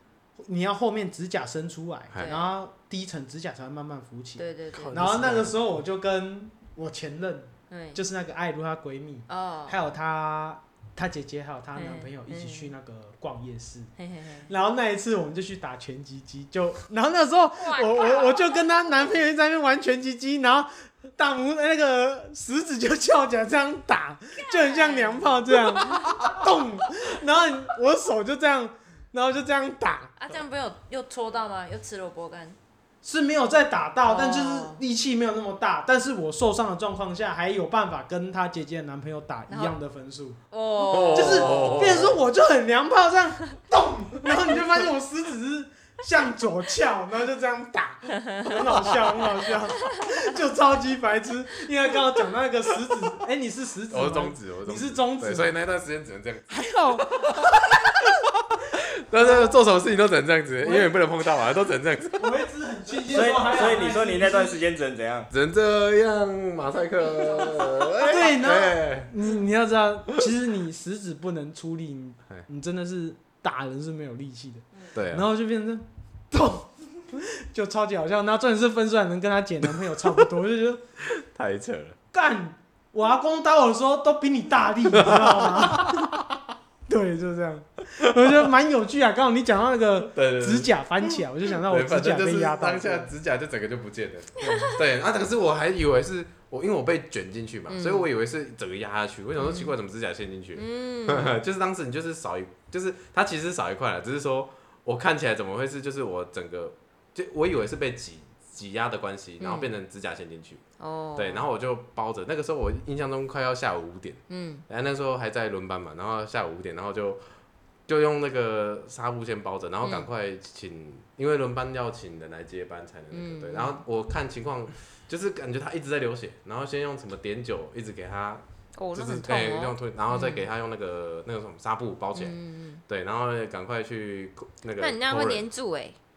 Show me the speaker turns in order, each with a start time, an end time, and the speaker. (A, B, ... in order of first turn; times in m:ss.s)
0:00.4-0:13.9 A
0:02.2-0:02.5 B
0:04.4-0:05.1 B
0:04.7-0:05.6 C
0:07.7-0:08.0 B
0:09.3-0:09.8 B
0:11.8-0:12.7 B
0:14.0-0:14.5 B
0:14.5-0:30.1 A
0:17.6-0:18.7 B
0:24.4-0:26.0 B
0:30.2-0:32.6 B
0:33.0-0:40.4 A
0:34.1-0:34.8 B
0:39.5-0:39.8 B
0:40.5-0:42.0 B
0:40.9-0:42.2 C
0:41.1-0:55.5 A
0:53.9-0:57.9 C
0:56.5-0:57.3 A
0:58.7-1:02.3 C
0:59.2-0:59.5 A
1:00.6-1:00.9 A
1:02.2-1:04.6 A
1:03.0-1:05.3 D
1:05.3-1:09.2 C
1:08.0-1:20.8 A
1:15.0-1:15.2 C
1:21.0-1:22.0 C
1:22.1-1:26.1 A
1:24.9-1:26.4 C
1:26.9-1:33.1 A
1:30.0-1:50.6 C
1:37.7-1:38.1 B
1:39.4-1:39.7 B
1:40.6-1:41.4 B
1:49.4-1:49.7 B
1:50.8-1:51.5 B
1:51.2-1:57.2 C
1:54.3-1:54.6 B
1:57.9-2:08.4 C
1:59.8-2:00.1 B
2:03.1-2:03.8 B
2:08.8-2:10.5 B
2:08.9-2:15.4 C
2:12.2-2:12.8 B
2:14.8-2:16.0 B